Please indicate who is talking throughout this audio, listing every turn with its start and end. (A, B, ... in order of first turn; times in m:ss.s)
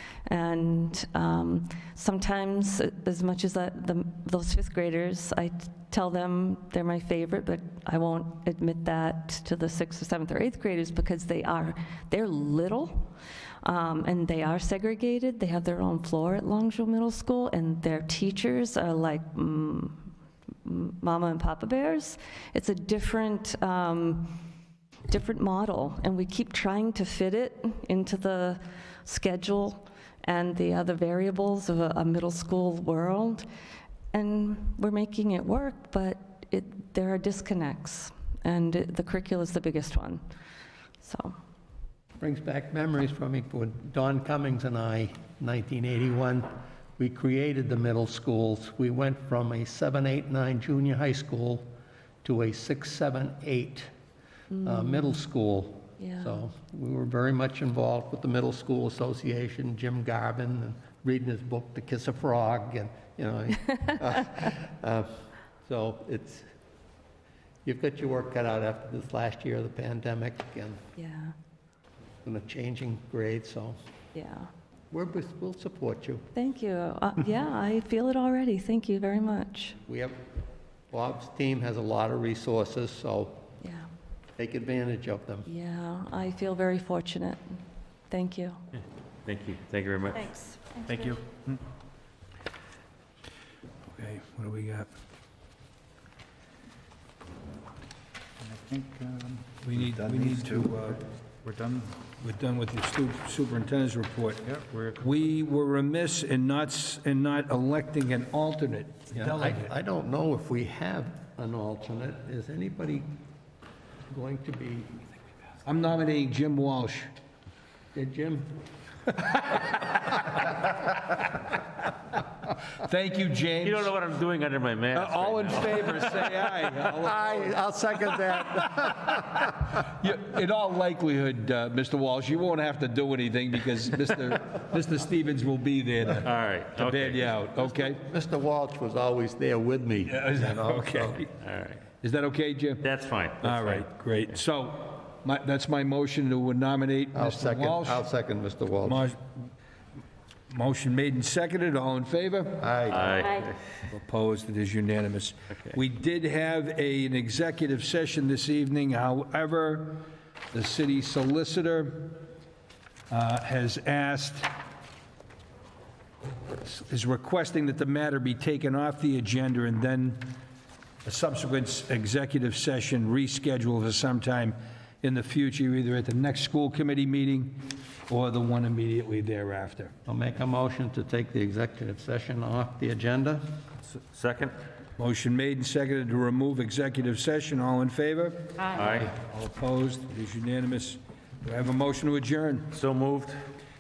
0:00.2-0:13.1 A
0:13.6-0:20.1 A
0:20.6-0:24.4 A
0:25.1-0:33.4 A
0:34.1-0:40.2 A
0:41.0-0:41.4 A
0:42.2-0:51.6 B
0:52.2-0:53.9 B
0:54.5-0:54.8 A
0:54.6-1:06.5 B
0:56.0-0:56.3 A
1:07.6-1:10.8 B
1:11.0-1:11.3 A
1:12.2-1:13.8 B
1:14.1-1:14.5 A
1:14.9-1:16.2 B
1:16.3-1:19.8 A
1:19.8-1:20.2 B
1:20.9-1:23.5 B
1:23.6-1:23.9 A
1:24.4-1:25.5 B
1:25.4-1:28.6 A
1:29.2-1:30.3 C
1:30.2-1:31.1 A
1:34.0-1:34.9 D
1:38.4-1:40.7 E
1:39.6-1:41.0 D
1:41.4-1:42.0 E
1:42.1-1:49.7 D
1:44.6-1:45.0 E
1:49.1-1:53.0 B
1:54.1-1:55.0 B
1:55.6-1:57.1 D
1:57.9-1:58.5 B
2:02.8-2:03.9 D
2:03.6-2:06.2 C
2:04.9-2:07.6 D
2:06.9-2:09.5 B
2:09.8-2:18.0 D
2:16.2-2:17.4 C
2:17.6-2:21.2 B
2:20.1-2:21.3 D
2:21.4-2:21.8 C
2:21.9-2:22.9 D
2:22.8-2:23.9 C
2:23.4-2:28.0 D
2:27.1-2:29.0 B
2:28.8-2:29.5 D
2:30.5-2:32.7 D
2:32.6-2:33.1 B
2:32.9-2:33.8 C
2:33.9-2:42.2 D
2:43.1-2:44.5 D
2:46.6-2:50.4 D
2:51.0-2:59.9 D
3:00.0-3:03.4 B
3:04.0-3:04.5 C
3:05.0-3:08.5 D
3:08.7-3:09.1 C
3:09.1-3:12.7 D
3:12.7-3:13.4 C